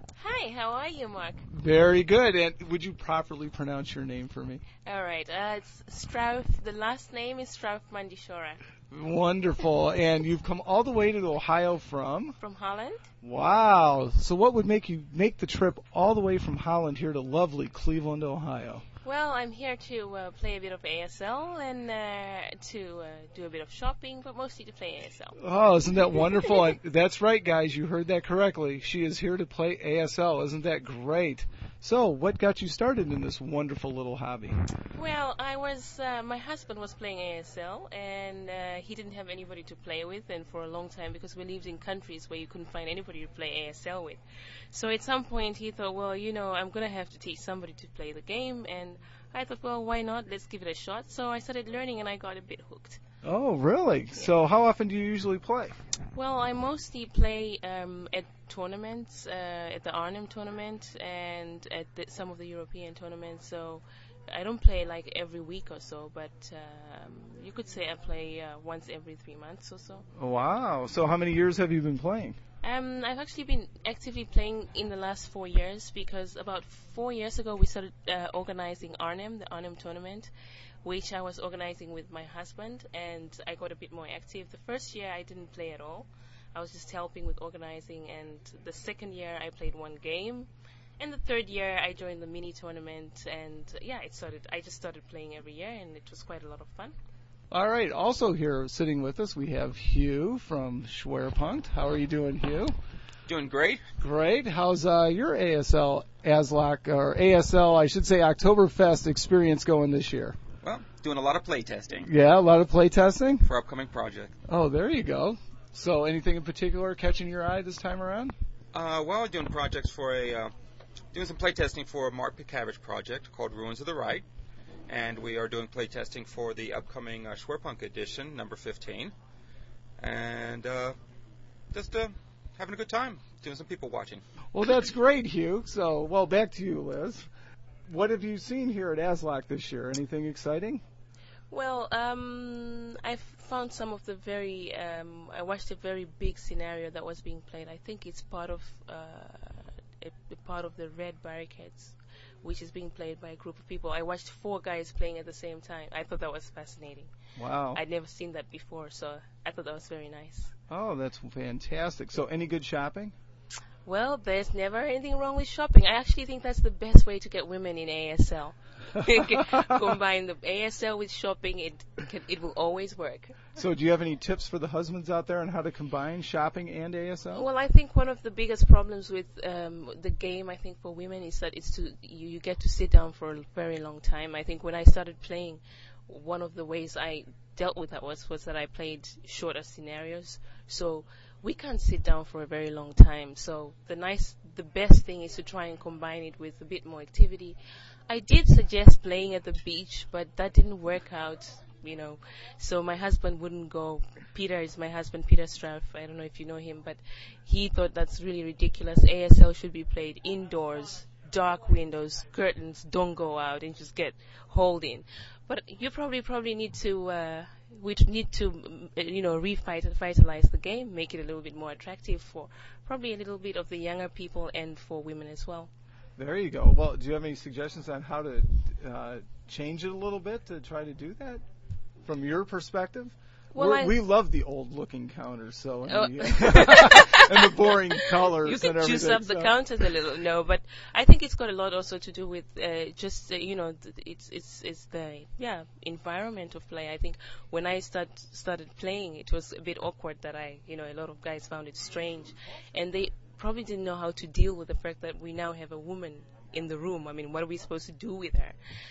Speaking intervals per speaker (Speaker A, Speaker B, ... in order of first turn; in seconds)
Speaker A: 0.2-1.4, 4.8-8.6, 12.4-13.0, 19.0-25.4, 35.0-44.2, 44.7-53.0, 56.1-70.0, 72.6-80.3, 80.8-90.5, 91.0-96.9, 141.5-157.1, 157.7-160.5, 163.8-173.5, 177.3-197.6, 198.1-225.7, 233.5-234.0, 235.9-258.6
Speaker B: 1.5-4.7, 8.9-12.4, 13.2-18.9, 25.4-34.6, 53.2-55.8, 70.2-72.4, 97.5-102.8, 104.0-110.4, 112.1-113.5, 114.5-118.3, 134.5-137.3, 137.9-140.8, 157.4-157.8, 160.7-163.1, 169.4-169.7, 173.6-177.5, 226.2-231.4, 232.0-239.6
Speaker C: 103.3-103.8, 110.6-112.1, 113.4-114.3, 118.7-120.5, 121.1-124.2, 124.9-129.1, 130.0-131.0, 131.7-134.2